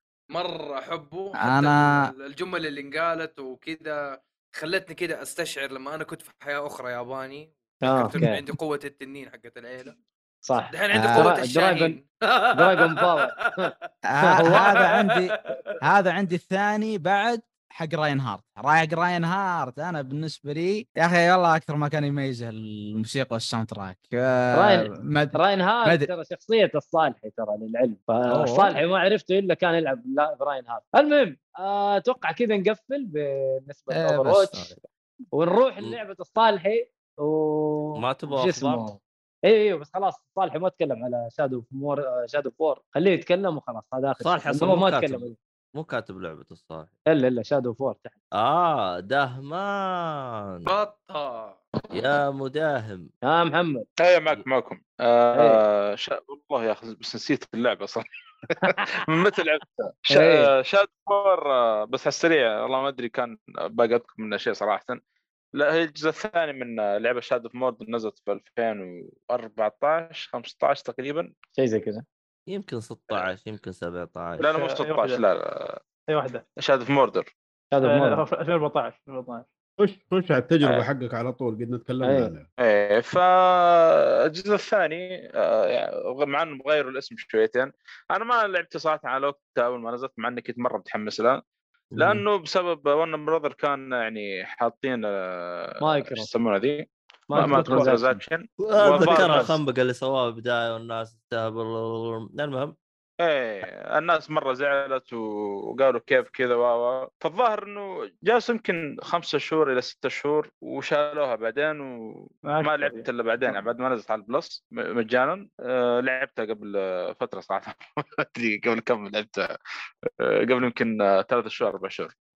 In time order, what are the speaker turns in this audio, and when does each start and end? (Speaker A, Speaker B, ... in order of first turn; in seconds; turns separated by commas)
Speaker A: 0.3-10.0, Speaker B: 1.4-2.1, Speaker C: 7.8-8.4, Speaker C: 10.4-12.0, Speaker A: 10.7-13.7, Speaker B: 10.9-11.3, Speaker C: 12.6-14.7, Speaker B: 14.1-26.1, Speaker A: 14.5-15.6, Speaker C: 24.5-34.7, Speaker B: 28.3-28.8, Speaker B: 33.9-34.8, Speaker C: 35.3-45.4, Speaker D: 38.0-38.9, Speaker D: 44.2-46.9, Speaker C: 47.1-48.2, Speaker D: 48.4-50.7, Speaker A: 50.7-51.6, Speaker D: 51.9-53.1, Speaker C: 53.2-53.9, Speaker E: 54.0-65.0, Speaker C: 55.4-55.6, Speaker C: 60.1-60.5, Speaker E: 65.6-71.3, Speaker C: 71.5-72.0, Speaker D: 72.5-74.4, Speaker E: 74.4-75.8, Speaker F: 74.4-75.2, Speaker F: 76.1-76.4, Speaker E: 76.6-77.3, Speaker C: 77.7-78.2, Speaker F: 77.8-79.5, Speaker G: 79.8-82.5, Speaker E: 80.6-80.9, Speaker C: 82.0-82.3, Speaker E: 82.6-91.4, Speaker D: 92.0-92.2, Speaker E: 92.0-99.6, Speaker C: 95.8-96.3, Speaker C: 97.3-98.1, Speaker G: 97.5-97.9, Speaker D: 98.6-102.8, Speaker E: 103.2-119.5, Speaker F: 112.5-113.6, Speaker E: 120.2-122.1